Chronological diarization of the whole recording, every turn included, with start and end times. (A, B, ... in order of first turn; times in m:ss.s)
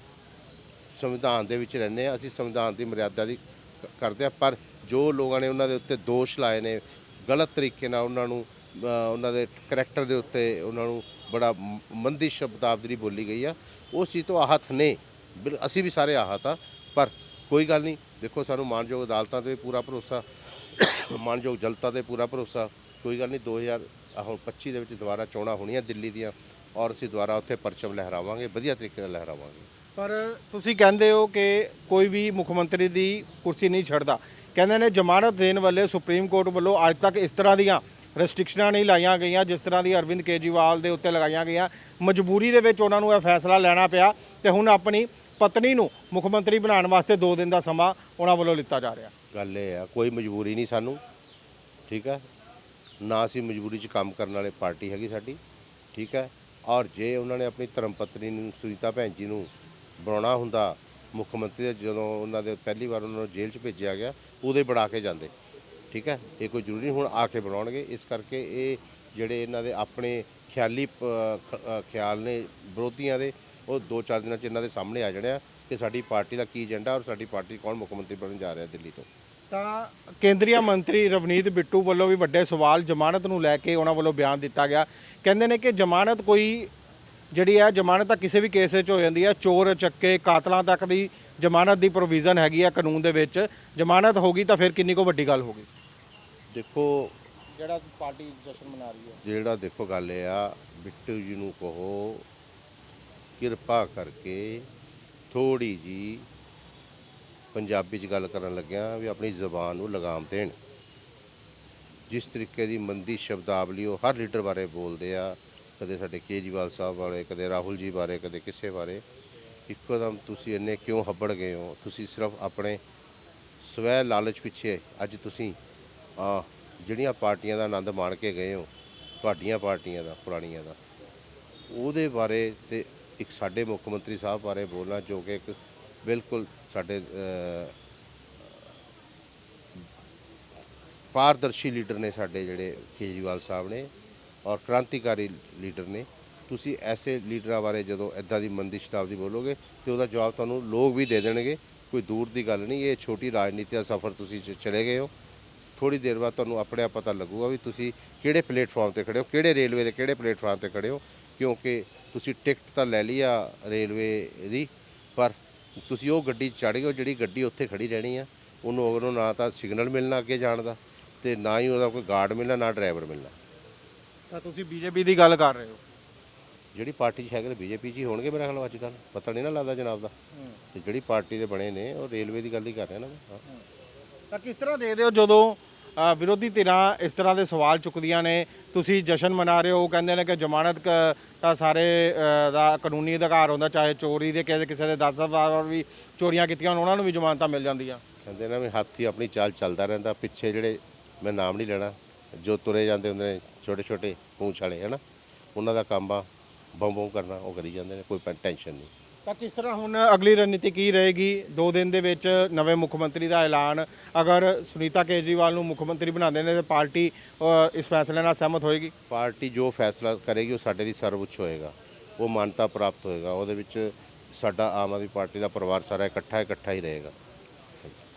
0:00.9-0:29.7 A
0:30.0-0:49.1 B
0:49.3-0:51.0 A
0:51.9-0:52.3 A
0:53.0-0:55.4 A
0:55.9-1:05.3 A
1:05.9-1:19.1 A
1:19.5-1:26.7 B
1:27.3-1:35.7 B
1:36.5-1:37.2 A
1:37.5-1:39.2 B
1:39.2-1:42.3 A
1:43.4-1:44.7 A
1:45.3-1:46.3 A
1:47.5-1:50.6 A
1:52.1-1:59.0 A
1:59.7-2:02.8 A
2:03.6-2:05.6 A
2:06.2-2:08.7 A
2:09.2-2:10.8 A
2:11.7-2:17.8 A
2:21.1-2:23.9 A
2:24.4-2:35.1 A
2:35.8-2:53.4 A
2:54.3-2:55.8 B
2:56.8-3:00.1 A
3:00.7-3:03.4 A
3:04.3-3:18.0 B
3:18.2-3:25.0 A
3:25.6-3:28.9 A
3:29.3-3:38.9 B
3:39.1-3:47.2 A